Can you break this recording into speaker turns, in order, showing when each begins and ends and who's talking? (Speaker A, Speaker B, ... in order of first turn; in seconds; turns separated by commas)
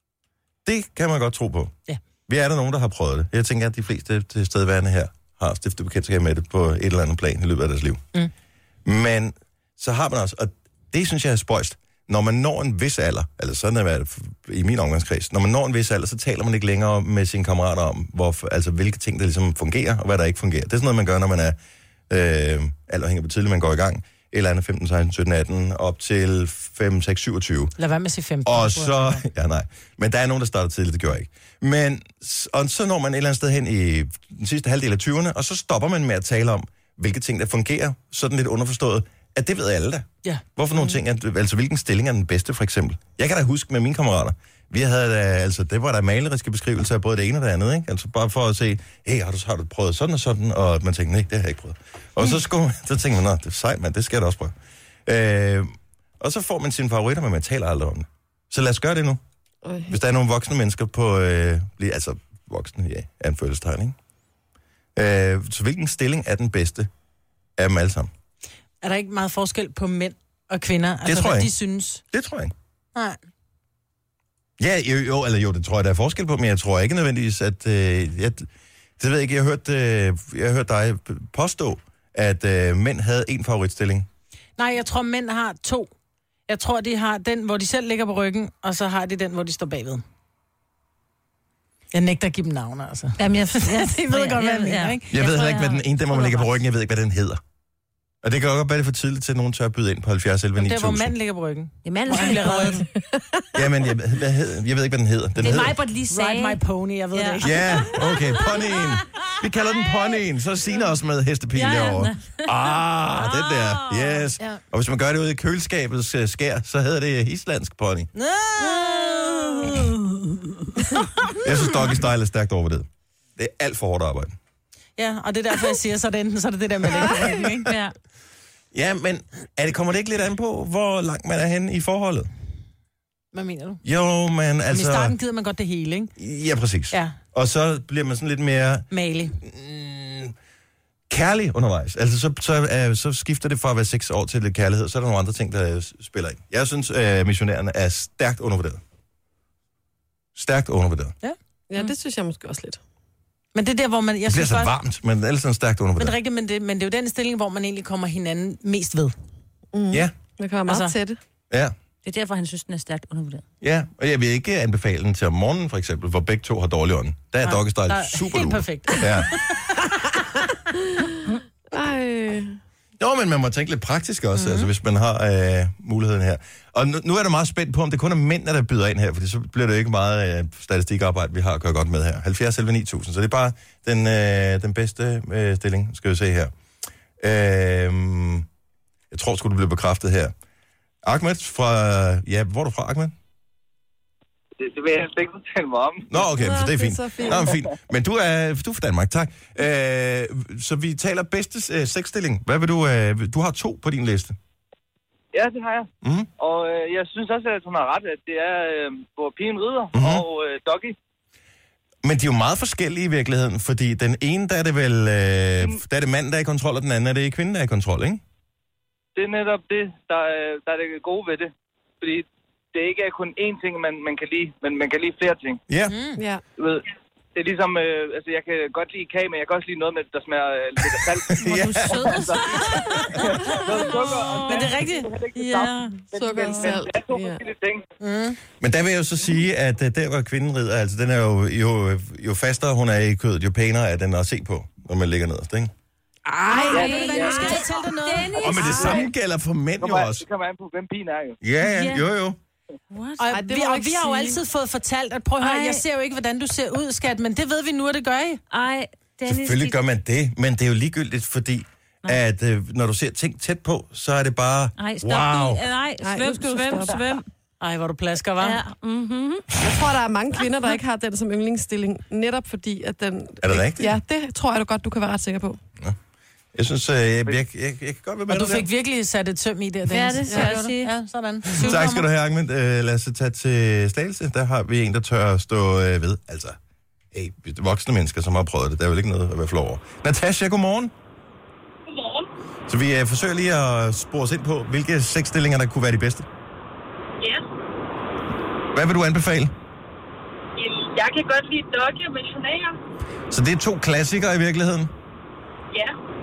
Speaker A: 0.6-1.7, Speaker A: 2.3-8.1, Speaker A: 8.8-21.6, Speaker A: 22.1-27.7, Speaker B: 27.8-29.2, Speaker A: 28.4-54.5, Speaker A: 55.0-59.2, Speaker C: 59.6-60.0, Speaker A: 59.9-64.0, Speaker A: 65.0-66.9, Speaker A: 67.6-68.1, Speaker B: 68.8-72.0, Speaker A: 71.0-71.5, Speaker A: 72.0-72.5, Speaker A: 74.6-78.5, Speaker A: 79.0-84.1, Speaker B: 84.6-85.9, Speaker B: 86.5-90.0, Speaker B: 91.9-95.0, Speaker D: 93.2-96.5, Speaker A: 95.1-97.4, Speaker A: 98.2-101.1, Speaker B: 100.6-102.8, Speaker D: 101.8-102.8, Speaker C: 102.9-103.4, Speaker A: 103.5-105.8, Speaker D: 105.4-106.6, Speaker B: 106.1-107.9, Speaker D: 107.1-109.3, Speaker A: 107.4-118.1, Speaker D: 111.5-114.3, Speaker B: 118.1-119.8, Speaker D: 118.6-120.7, Speaker A: 121.4-124.3, Speaker B: 125.0-127.7, Speaker D: 127.7-127.9, Speaker A: 128.7-132.3, Speaker B: 133.3-133.8, Speaker A: 133.8-135.2, Speaker B: 134.7-136.1, Speaker A: 136.2-138.9, Speaker B: 136.9-137.2, Speaker B: 138.9-139.4, Speaker A: 139.4-140.3, Speaker A: 141.1-148.8, Speaker A: 150.3-151.1, Speaker C: 151.7-152.8, Speaker B: 153.5-154.7, Speaker A: 154.3-156.2, Speaker B: 156.0-159.1, Speaker C: 159.7-161.2, Speaker B: 160.7-160.9, Speaker D: 162.0-163.4, Speaker A: 163.6-169.5, Speaker B: 167.4-169.5, Speaker C: 170.9-171.2, Speaker C: 171.7-172.6, Speaker A: 173.0-186.5, Speaker B: 174.3-174.7, Speaker A: 187.2-188.5, Speaker A: 189.1-190.3, Speaker A: 191.0-193.1, Speaker E: 194.6-196.1, Speaker A: 196.1-204.4, Speaker C: 196.2-197.5, Speaker E: 205.3-210.9, Speaker A: 206.0-206.3, Speaker A: 209.9-210.2, Speaker A: 212.0-218.2, Speaker E: 219.1-225.6, Speaker A: 225.7-225.9, Speaker B: 225.9-226.2, Speaker C: 226.2-226.4, Speaker E: 226.6-237.8, Speaker A: 231.3-232.1, Speaker D: 231.4-236.8, Speaker B: 234.4-235.1, Speaker C: 236.1-237.4, Speaker B: 238.0-238.4, Speaker A: 238.6-245.7, Speaker B: 246.2-249.0, Speaker C: 246.5-247.3, Speaker D: 246.5-249.1, Speaker E: 246.7-247.6, Speaker A: 248.4-250.2, Speaker E: 249.8-251.4, Speaker A: 251.4-252.4, Speaker D: 251.6-252.0, Speaker D: 252.9-253.2, Speaker B: 253.2-258.4, Speaker C: 253.3-254.4, Speaker D: 255.4-255.8, Speaker D: 258.5-259.8, Speaker A: 259.2-265.6, Speaker D: 264.8-267.2, Speaker C: 266.0-267.1, Speaker B: 267.6-268.6, Speaker D: 268.4-269.5, Speaker C: 269.6-275.6, Speaker A: 273.4-274.0, Speaker A: 276.5-278.7, Speaker B: 278.3-282.1, Speaker D: 279.9-280.9, Speaker A: 281.6-286.6, Speaker A: 287.1-290.9, Speaker F: 291.9-292.3, Speaker A: 292.7-296.2, Speaker A: 298.7-299.5, Speaker F: 300.6-302.8, Speaker A: 303.3-304.9